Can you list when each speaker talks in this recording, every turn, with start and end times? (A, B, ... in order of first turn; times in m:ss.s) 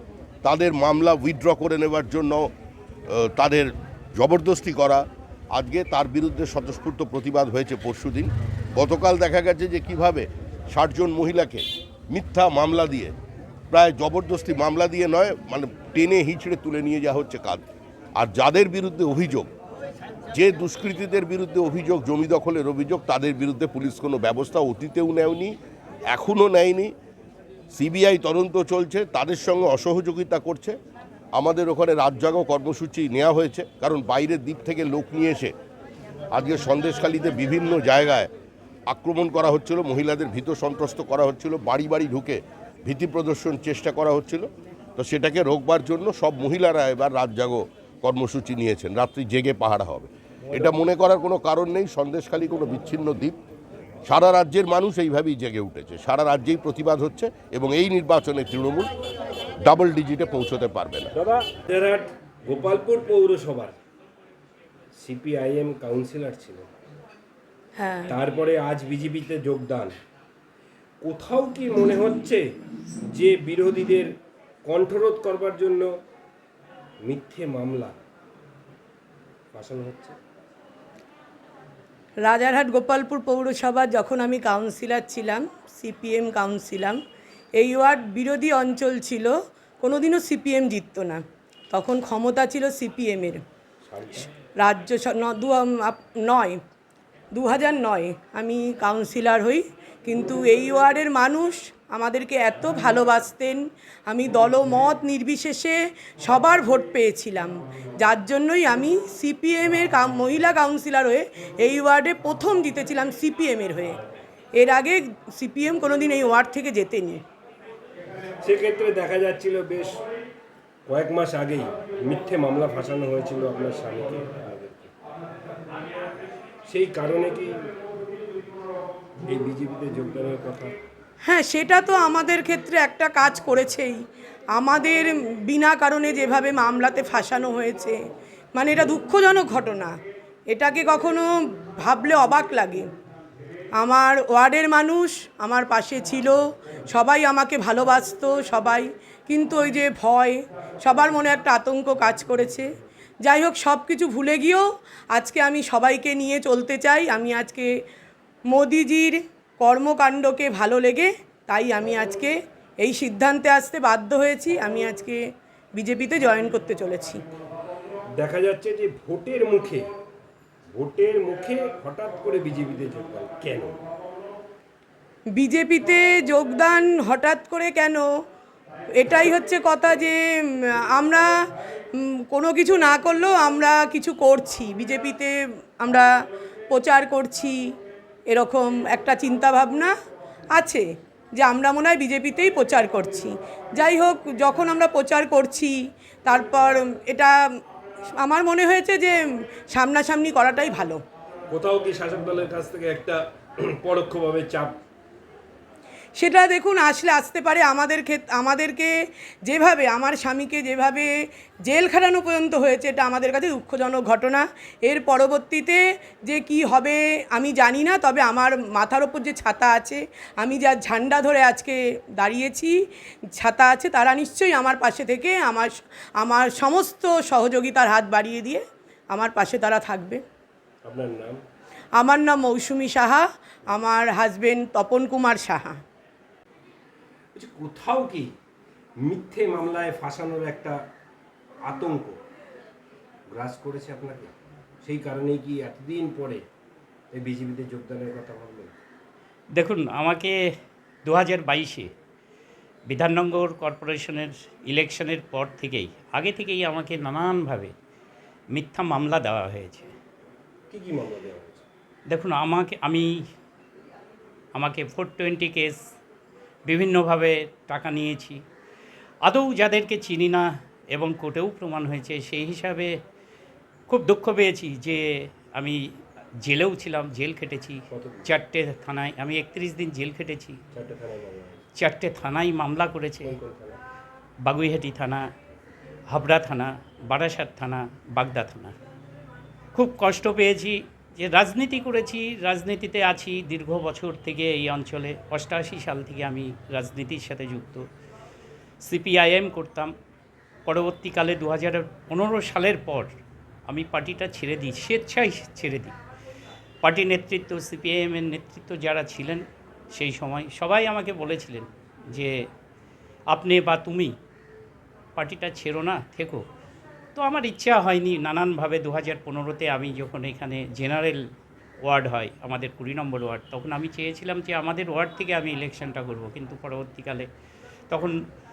0:00.4-0:02.5 A
0:03.1-0:13.1 A
0:13.7-0:17.6 A
0:18.2-0:19.5 A
0:20.3-0:25.6 A
0:26.1-0:26.9 A
0:27.7-0:30.8 A
0:31.3-0:35.5 A
0:36.3-0:38.3 A
0:38.9-0:53.4 A
0:54.0-0:58.9 A
0:59.6-1:01.1 A
1:01.1-1:03.8 B
1:05.0-1:06.7 B
1:07.8-1:08.2 C
1:08.1-1:10.0 B
1:11.0-1:12.4 B
1:13.1-1:14.1 B
1:14.6-1:15.9 B
1:17.0-1:18.0 B
1:19.5-1:20.2 B
1:22.2-1:27.0 C
1:27.6-1:33.4 C
1:33.8-1:34.3 B
1:34.6-1:36.6 C
1:37.3-1:54.0 C
1:54.6-1:57.2 C
1:58.4-2:00.0 B
2:00.8-2:04.9 B
2:06.7-2:07.6 B
2:09.3-2:10.8 B
2:11.2-2:14.0 C
2:14.5-2:18.0 C
2:18.5-2:19.9 C
2:20.5-2:22.9 C
2:23.8-2:32.7 C
2:33.2-2:37.7 C
2:38.5-2:45.2 C
2:45.8-2:47.2 C
2:48.2-2:49.9 B
2:50.7-2:53.8 B
2:55.4-2:58.0 C
2:59.0-3:00.2 C
3:00.9-3:01.3 C
3:02.3-3:06.1 C
3:06.7-3:07.6 C
3:08.3-3:09.9 C
3:10.5-3:10.8 C
3:11.4-3:17.3 C
3:18.2-3:19.2 C
3:19.7-3:21.0 C
3:21.5-3:24.8 B
3:26.2-3:28.9 C
3:29.4-3:31.1 C
3:31.6-3:42.8 C
3:43.4-3:50.2 C
3:50.8-3:51.4 B
3:52.0-3:55.8 C
3:57.3-3:58.3 B
3:59.0-4:00.8 B
4:01.6-4:02.2 B
4:03.3-4:04.3 B
4:04.8-4:06.4 B
4:07.1-4:08.7 B
4:09.5-4:10.4 D
4:11.0-4:11.9 D
4:12.9-4:17.7 D
4:18.5-4:19.9 D
4:20.7-4:21.6 B
4:22.1-4:23.1 D
4:24.5-4:25.8 D
4:26.7-4:28.4 D
4:29.2-4:32.9 D
4:33.9-4:35.8 D
4:36.4-4:40.6 D
4:37.9-4:38.3 B
4:40.7-4:41.6 B
4:41.8-4:43.3 D
4:43.2-4:43.8 B
4:44.4-4:45.3 D
4:46.1-4:48.7 D
4:49.7-4:57.8 D
4:58.8-4:59.9 D
5:00.6-5:03.1 D
5:03.7-5:05.9 D
5:06.8-5:12.4 D
5:13.3-5:14.1 D
5:15.2-5:16.4 D
5:17.1-5:21.2 D
5:21.8-5:27.3 D
5:27.9-5:28.2 D